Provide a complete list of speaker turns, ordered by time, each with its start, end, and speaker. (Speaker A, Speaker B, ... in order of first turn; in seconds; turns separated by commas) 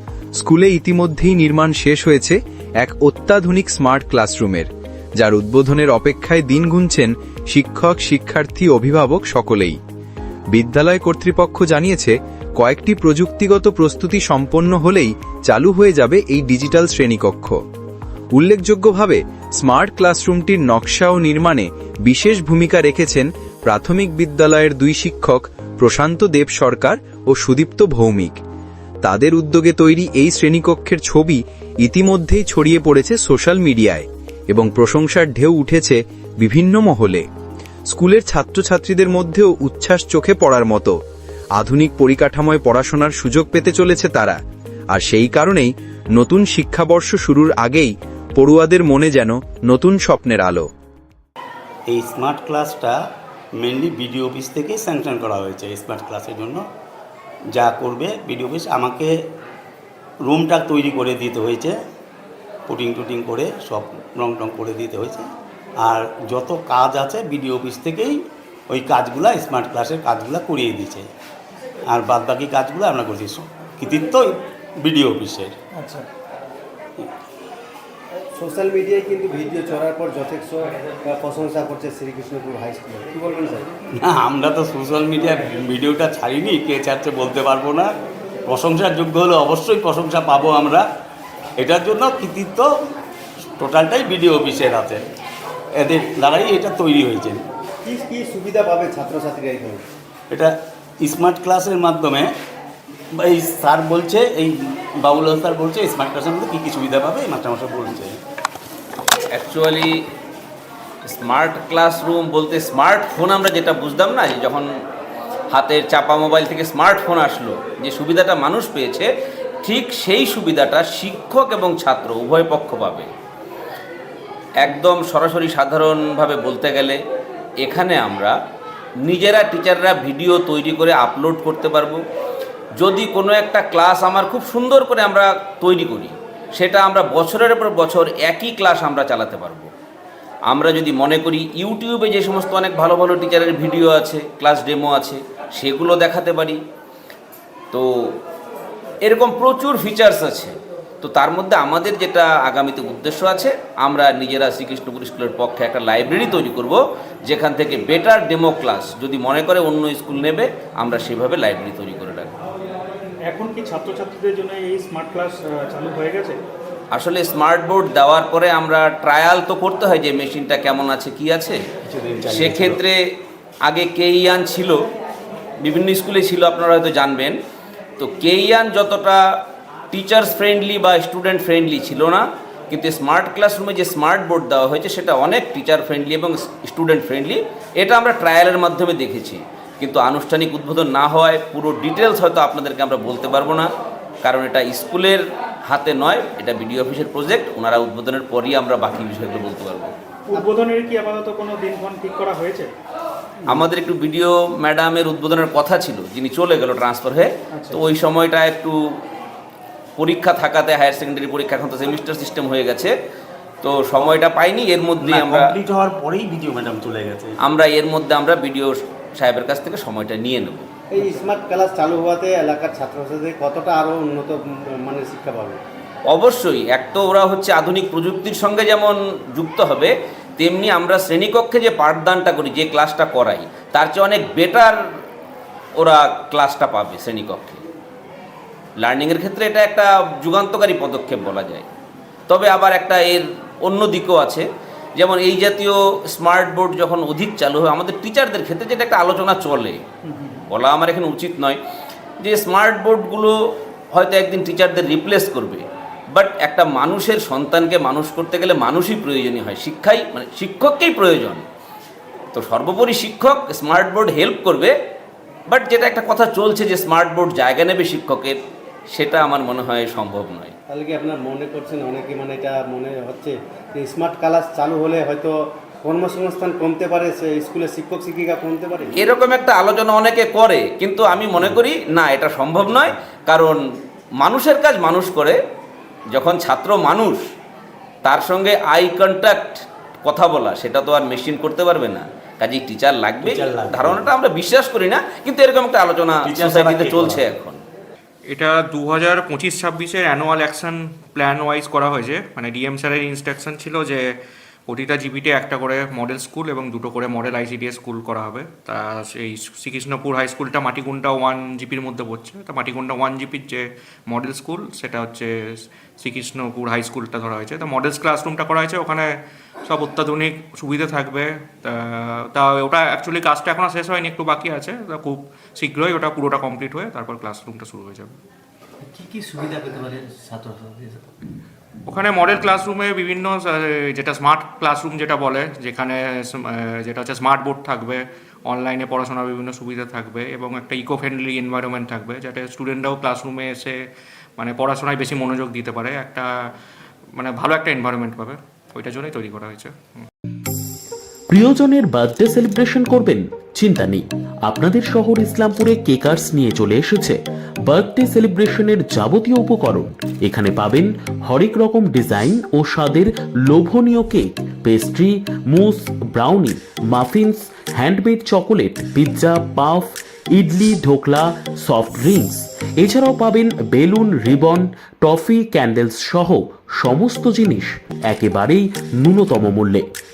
Speaker A: 0.4-9.8, Speaker A: 10.5-17.6, Speaker A: 18.3-28.4, Speaker A: 29.0-37.2, Speaker A: 37.9-41.0, Speaker A: 41.6-44.4, Speaker A: 44.9-50.7, Speaker B: 51.9-53.0, Speaker B: 53.6-56.6, Speaker B: 57.5-59.1, Speaker B: 60.2-61.8, Speaker B: 62.7-65.3, Speaker B: 65.8-68.2, Speaker B: 68.7-71.1, Speaker B: 71.9-75.5, Speaker C: 75.8-76.0, Speaker D: 78.3-83.7, Speaker B: 84.0-87.9, Speaker B: 88.5-90.8, Speaker B: 91.6-92.7, Speaker B: 93.6-95.0, Speaker B: 95.8-97.4, Speaker D: 97.8-99.8, Speaker B: 100.3-102.3, Speaker B: 103.2-108.2, Speaker E: 109.3-109.9, Speaker E: 111.0-114.7, Speaker E: 115.5-119.1, Speaker E: 119.6-123.1, Speaker E: 124.6-127.0, Speaker E: 127.6-128.3, Speaker E: 129.0-132.0, Speaker E: 132.8-139.7, Speaker E: 140.5-146.6, Speaker E: 149.0-162.3, Speaker C: 163.3-166.4, Speaker E: 166.9-171.6, Speaker B: 171.9-172.8, Speaker E: 172.3-173.0, Speaker E: 173.7-174.8, Speaker E: 175.6-177.4, Speaker E: 178.0-179.2, Speaker E: 179.9-193.7, Speaker E: 194.2-199.9, Speaker C: 200.3-202.7, Speaker E: 203.5-208.8, Speaker C: 207.5-207.8, Speaker E: 210.0-212.9, Speaker E: 213.6-215.5, Speaker B: 215.0-217.3, Speaker E: 217.4-220.7, Speaker D: 220.9-225.6, Speaker E: 226.1-234.8, Speaker E: 235.8-237.6, Speaker E: 238.8-241.7, Speaker E: 242.3-244.4, Speaker E: 245.0-249.8, Speaker C: 250.0-250.4, Speaker E: 250.5-251.6, Speaker E: 252.2-253.3, Speaker E: 253.9-261.4, Speaker E: 262.4-264.7, Speaker E: 265.5-268.4, Speaker E: 268.9-270.5, Speaker D: 270.7-278.9, Speaker E: 279.0-283.6, Speaker E: 284.2-285.4, Speaker E: 286.1-287.2, Speaker E: 288.0-297.6, Speaker B: 293.2-294.1, Speaker B: 296.2-297.2, Speaker F: 298.3-304.1, Speaker F: 304.7-319.1, Speaker F: 319.6-328.1, Speaker G: 328.9-331.0, Speaker F: 331.9-343.8, Speaker F: 344.4-346.3, Speaker F: 347.1-350.1, Speaker H: 351.3-379.9